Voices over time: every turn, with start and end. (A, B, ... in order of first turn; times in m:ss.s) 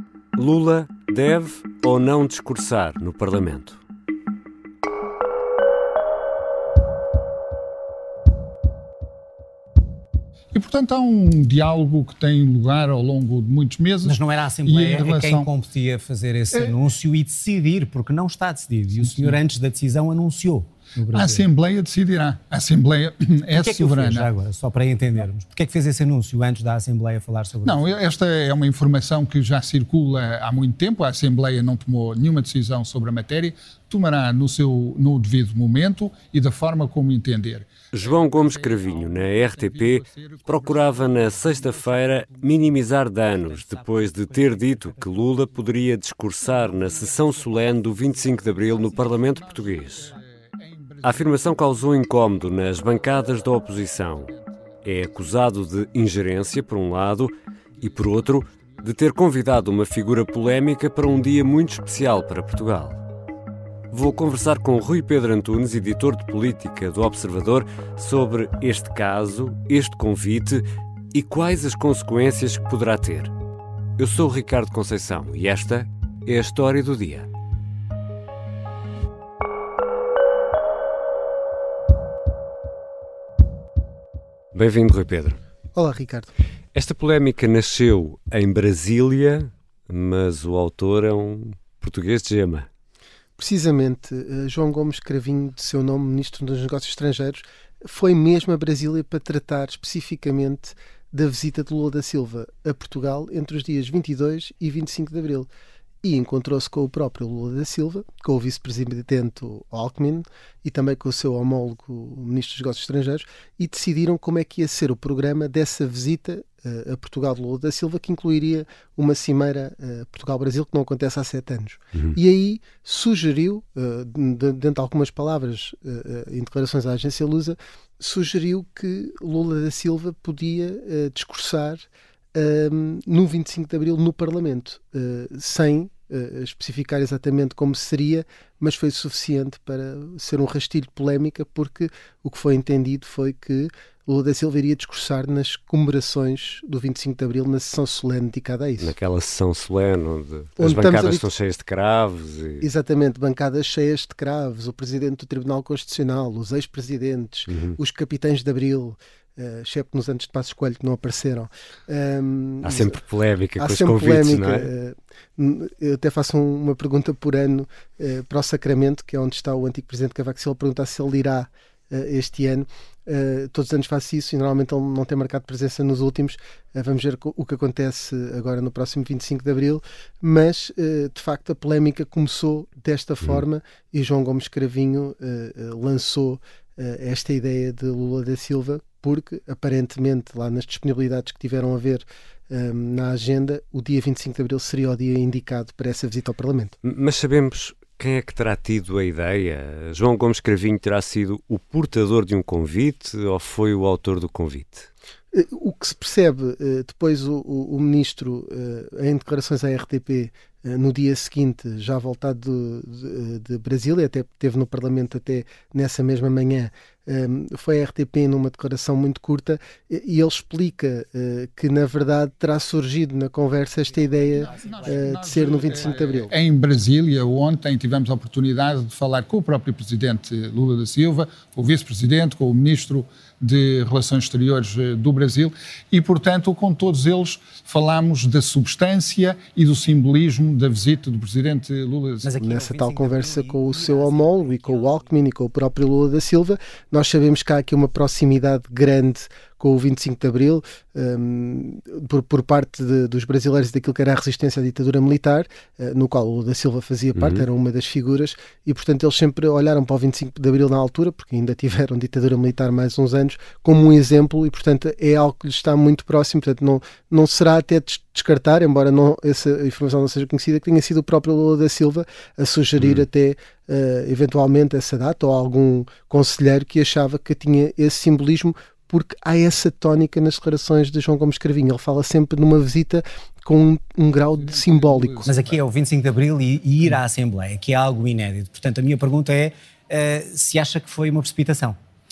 0:00.4-0:03.8 A
0:10.5-0:15.6 B
0:14.0-0:21.4 C
0:16.5-0:16.8 B
0:19.0-0:19.4 B
0:21.1-0:24.3 B
0:23.5-0:27.9 C
0:27.6-0:42.9 B
0:37.9-0:50.1 A
0:43.4-0:45.3 C
0:46.4-0:55.1 B
0:51.0-0:54.3 A
0:54.8-1:03.0 A
0:57.8-0:59.0 B
1:03.9-1:10.6 A
1:11.1-1:13.3 A
1:14.0-1:17.3 A
1:24.5-1:25.4 A
1:25.7-1:26.3 D
1:26.7-1:32.7 A
1:33.4-1:45.5 D
1:46.0-2:28.9 D
2:28.8-2:32.7 A
2:30.6-2:31.3 D
2:32.6-2:43.0 D
2:37.5-2:37.8 A
2:42.6-2:44.7 A
2:43.6-3:16.7 D
3:16.8-3:24.9 A
3:25.3-3:46.3 D
3:44.1-4:02.3 B
4:02.2-4:05.1 C
4:02.4-4:45.3 D
4:17.2-4:17.4 A
4:44.3-4:45.6 B
4:45.3-4:51.8 C